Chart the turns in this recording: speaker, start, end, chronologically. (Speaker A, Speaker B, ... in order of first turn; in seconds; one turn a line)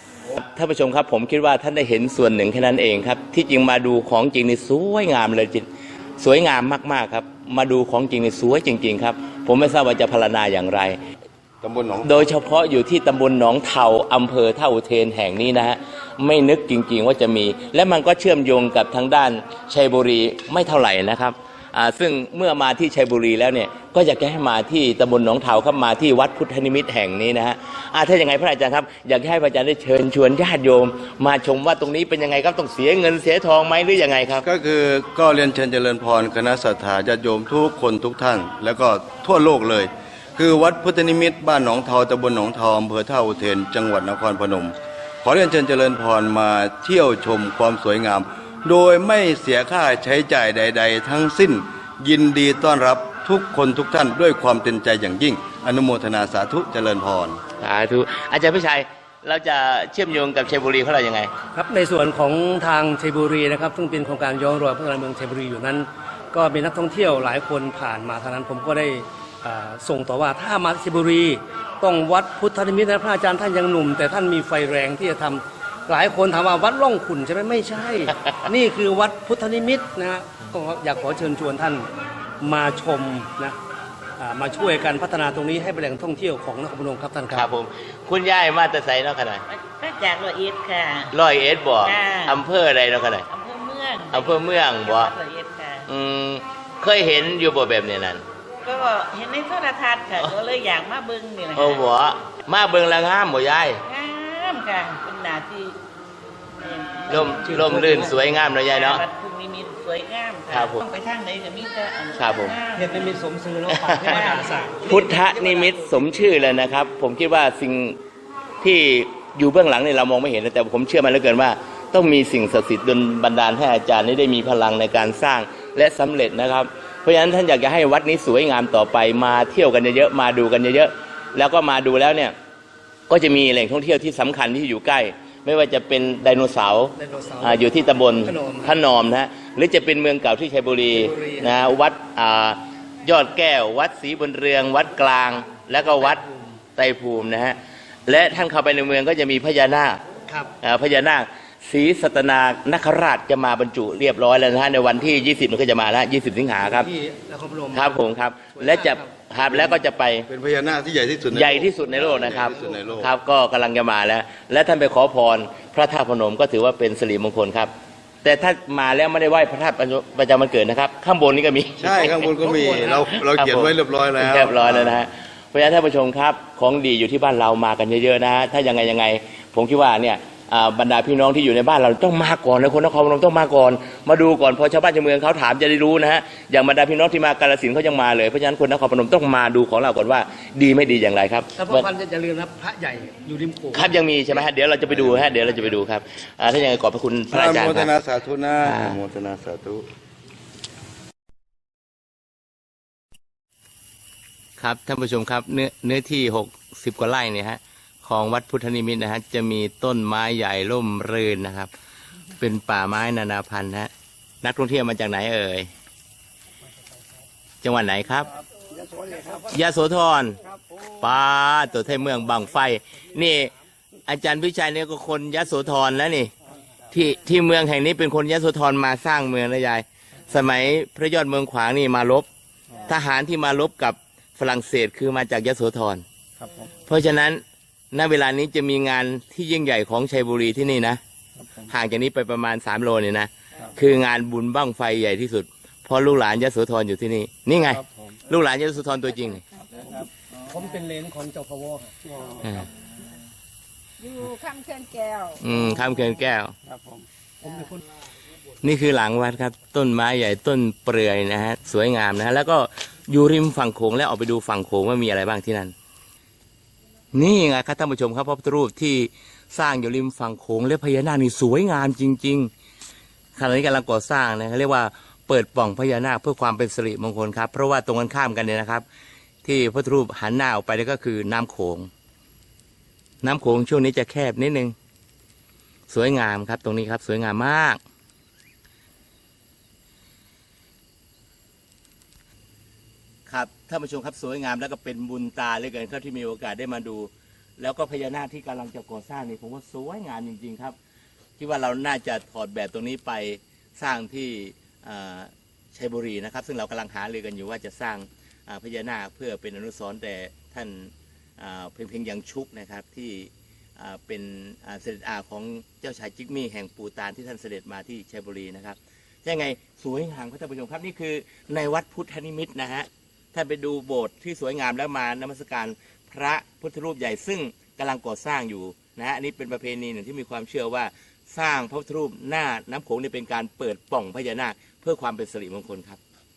Speaker A: 0.3-5.7
Speaker A: 6.2-11.0
Speaker B: 11.6-12.3
Speaker A: 12.0-34.5
Speaker B: 34.4-57.4
Speaker A: 57.6-61.3
Speaker C: 61.5-81.8
Speaker A: 78.2-78.5
Speaker C: 82.4-83.5
Speaker C: 84.2-87.5
Speaker A: 87.3-89.4
Speaker D: 89.5-91.1
Speaker A: 91.1-93.2
Speaker D: 91.8-92.4
Speaker D: 93.3-95.8
Speaker A: 94.1-95.1
Speaker A: 95.9-98.2
Speaker D: 98.6-101.8
Speaker A: 101.5-103.8
Speaker D: 103.8-105.8
Speaker D: 106.6-113.2
Speaker A: 107.1-109.0
Speaker C: 107.1-108.2
Speaker A: 110.5-110.8
Speaker A: 112.2-112.5
Speaker C: 112.7-115.8
Speaker A: 113.7-114.1
Speaker D: 113.8-116.0
Speaker A: 114.8-118.0
Speaker A: 118.6-132.3
Speaker A: 133.1-146.2
Speaker C: 137.0-138.8
Speaker C: 140.8-141.6
Speaker C: 145.8-146.6
Speaker A: 146.8-150.0
Speaker A: 150.6-156.9
Speaker C: 156.6-157.9
Speaker A: 157.7-160.3
Speaker C: 158.6-159.1
Speaker B: 159.5-163.1
Speaker A: 161.3-167.7
Speaker A: 168.2-172.3
Speaker B: 171.8-175.0
Speaker C: 172.4-173.1
Speaker A: 173.2-191.9
Speaker C: 191.6-193.9
Speaker A: 193.7-197.9
Speaker B: 194.9-195.3
Speaker B: 197.3-199.9
Speaker A: 198.6-199.0
Speaker A: 204.6-211.7
Speaker A: 212.4-213.9
Speaker A: 214.4-215.7
Speaker A: 217.6-218.3
Speaker C: 218.8-219.5
Speaker A: 219.4-220.4
Speaker A: 220.9-223.5
Speaker A: 224.1-226.3
Speaker A: 226.9-232.3
Speaker A: 232.8-236.0
Speaker C: 236.4-236.7
Speaker A: 236.8-241.0
Speaker A: 241.7-249.4
Speaker E: 249.5-249.8
Speaker C: 249.7-252.7
Speaker A: 252.4-252.7
Speaker E: 254.0-255.6
Speaker A: 255.4-256.5
Speaker C: 256.7-257.8
Speaker A: 258.6-265.7
Speaker A: 267.1-272.5
Speaker A: 273.4-278.8
Speaker A: 279.4-281.9
Speaker A: 283.2-284.7
Speaker A: 285.9-287.8
Speaker A: 293.3-300.8
Speaker A: 301.4-336.0